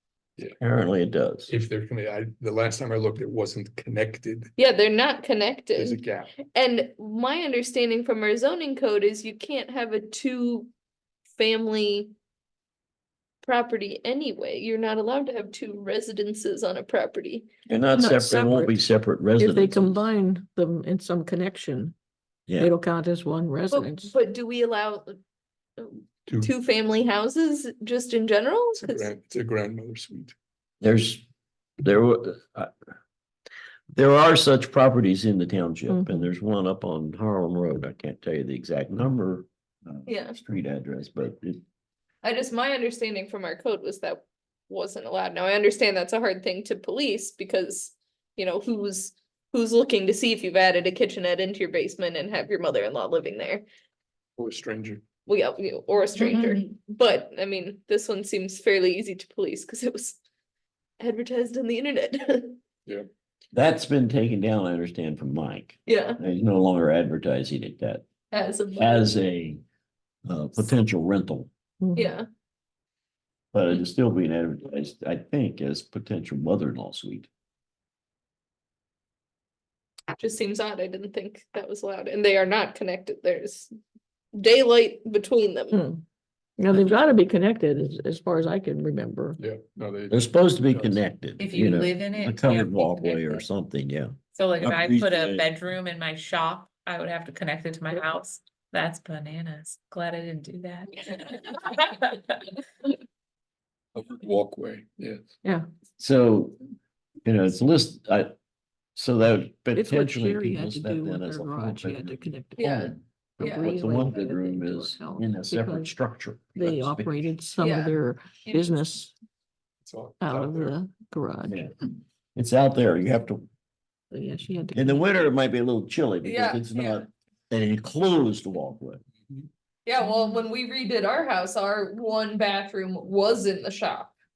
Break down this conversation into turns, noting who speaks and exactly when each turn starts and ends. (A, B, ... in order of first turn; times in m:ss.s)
0:00.6-0:01.5 A
0:01.5-0:04.5 B
0:04.6-0:10.7 C
0:05.8-0:06.3 B
0:11.4-0:12.1 C
0:13.4-0:17.5 C
0:17.7-0:20.1 A
0:17.9-0:18.8 D
0:19.4-0:21.9 D
0:22.6-0:24.1 D
0:23.7-0:25.2 C
0:25.8-0:29.1 C
0:26.3-0:26.5 B
0:28.8-0:30.4 B
0:30.8-0:31.2 A
0:31.8-0:32.7 A
0:33.9-0:41.6 A
0:35.9-0:36.3 D
0:40.1-0:40.4 C
0:42.2-0:53.6 C
0:54.4-0:55.0 B
0:55.3-1:00.2 C
1:01.0-1:02.6 C
1:03.5-1:08.0 A
1:05.9-1:06.2 C
1:08.3-1:09.2 C
1:08.8-1:09.6 A
1:10.3-1:11.5 A
1:11.8-1:12.1 D
1:12.0-1:12.3 C
1:13.5-1:17.3 A
1:20.2-1:23.7 C
1:24.3-1:25.8 C
1:25.7-1:26.0 D
1:26.6-1:29.4 D
1:29.4-1:31.0 B
1:30.1-1:35.5 A
1:31.4-1:33.4 E
1:34.3-1:42.4 E
1:44.0-1:45.2 B
1:46.0-1:46.6 A
1:47.3-1:48.3 A
1:49.0-1:57.3 A
1:49.8-1:52.8 D
1:52.6-1:53.7 C
1:53.4-1:55.9 D
1:56.6-1:59.1 D
1:57.6-1:58.7 C
1:59.8-2:00.8 B
2:00.2-2:01.6 D
2:01.5-2:01.7 A
2:02.4-2:03.4 A
2:04.1-2:05.1 D
2:04.7-2:09.0 A
2:06.2-2:07.0 C
2:09.8-2:14.1 C